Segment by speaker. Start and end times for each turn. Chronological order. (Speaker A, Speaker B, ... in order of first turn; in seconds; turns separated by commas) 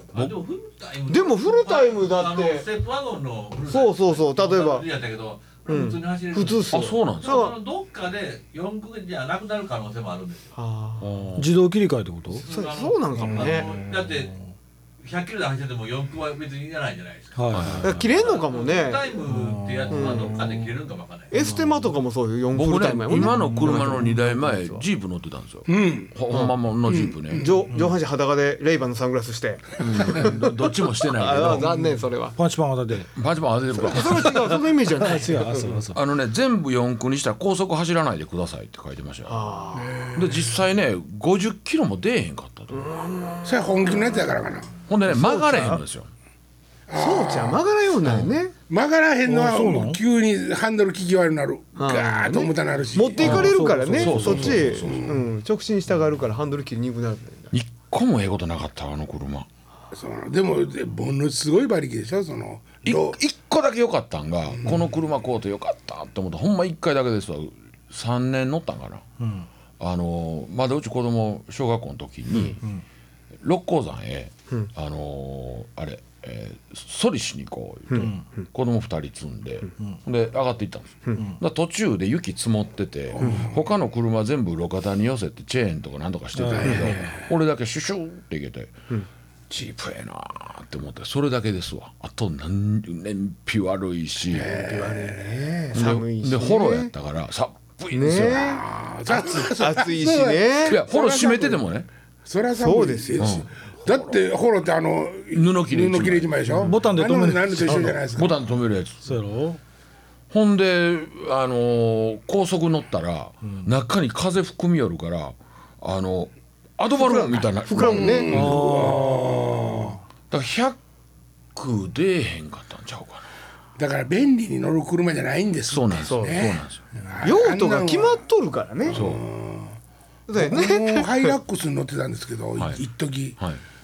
Speaker A: 0.1-10.5, Speaker B: 1.1-2.7, Speaker B: 3.7-4.8, Speaker B: 5.7-7.6, Speaker C: 6.7-7.5, Speaker B: 10.5-11.1, Speaker C: 11.0-11.5, Speaker D: 11.3-12.4, Speaker A: 12.3-14.4, Speaker B: 12.4-13.7, Speaker D: 13.3-14.3, Speaker A: 15.0-21.4, Speaker D: 17.4-18.0, Speaker C: 17.5-18.0, Speaker B: 17.8-19.1, Speaker D: 19.3-20.2, Speaker B: 19.9-20.5, Speaker B: 21.3-24.8, Speaker C: 22.5-27.5, Speaker D: 23.2-23.9, Speaker E: 25.7-26.1, Speaker E: 26.9-27.6, Speaker B: 27.3-30.5, Speaker C: 29.8-31.7, Speaker B: 31.1-32.4, Speaker D: 31.5-33.1, Speaker C: 33.1-34.5, Speaker B: 33.8-35.8, Speaker D: 34.1-36.0, Speaker C: 35.9-39.5, Speaker B: 39.3-40.0, Speaker E: 39.8-40.2, Speaker C: 40.1-42.9, Speaker B: 42.7-43.7, Speaker E: 43.4-44.7, Speaker C: 44.9-46.1, Speaker B: 45.1-45.8, Speaker E: 46.9-47.6, Speaker B: 46.9-48.5, Speaker C: 48.0-48.3, Speaker E: 48.7-53.4, Speaker D: 49.3-50.0, Speaker B: 51.8-57.5, Speaker D: 53.2-54.6, Speaker C: 53.2-55.1, Speaker E: 54.3-55.2, Speaker C: 57.5-59.5, Speaker E: 59.9-63.2, Speaker C: 62.8-69.0, Speaker D: 69.2-69.5, Speaker C: 69.8-72.6, Speaker C: 73.4-88.8, Speaker B: 77.9-78.4, Speaker E: 83.1-83.5, Speaker B: 83.2-83.5, Speaker D: 86.3-86.8, Speaker E: 86.5-87.3, Speaker B: 86.6-87.0, Speaker C: 89.5-94.5, Speaker E: 94.3-95.4, Speaker B: 94.3-96.9, Speaker C: 95.7-98.6, Speaker B: 97.9-100.8, Speaker E: 98.3-101.6, Speaker C: 100.6-101.9, Speaker E: 102.2-108.4, Speaker B: 102.5-103.4, Speaker C: 103.2-103.5, Speaker C: 105.3-106.5, Speaker D: 106.6-107.9, Speaker C: 108.1-109.1, Speaker D: 109.0-109.6, Speaker C: 110.3-118.6, Speaker B: 116.9-118.5, Speaker E: 117.8-120.0, Speaker D: 118.3-119.9, Speaker C: 120.3-120.8, Speaker C: 121.5-123.2, Speaker E: 123.8-128.2, Speaker C: 125.7-126.9, Speaker B: 126.0-126.5, Speaker B: 127.2-129.0, Speaker E: 128.8-129.7, Speaker C: 128.9-129.2, Speaker B: 130.3-131.3, Speaker E: 130.3-133.4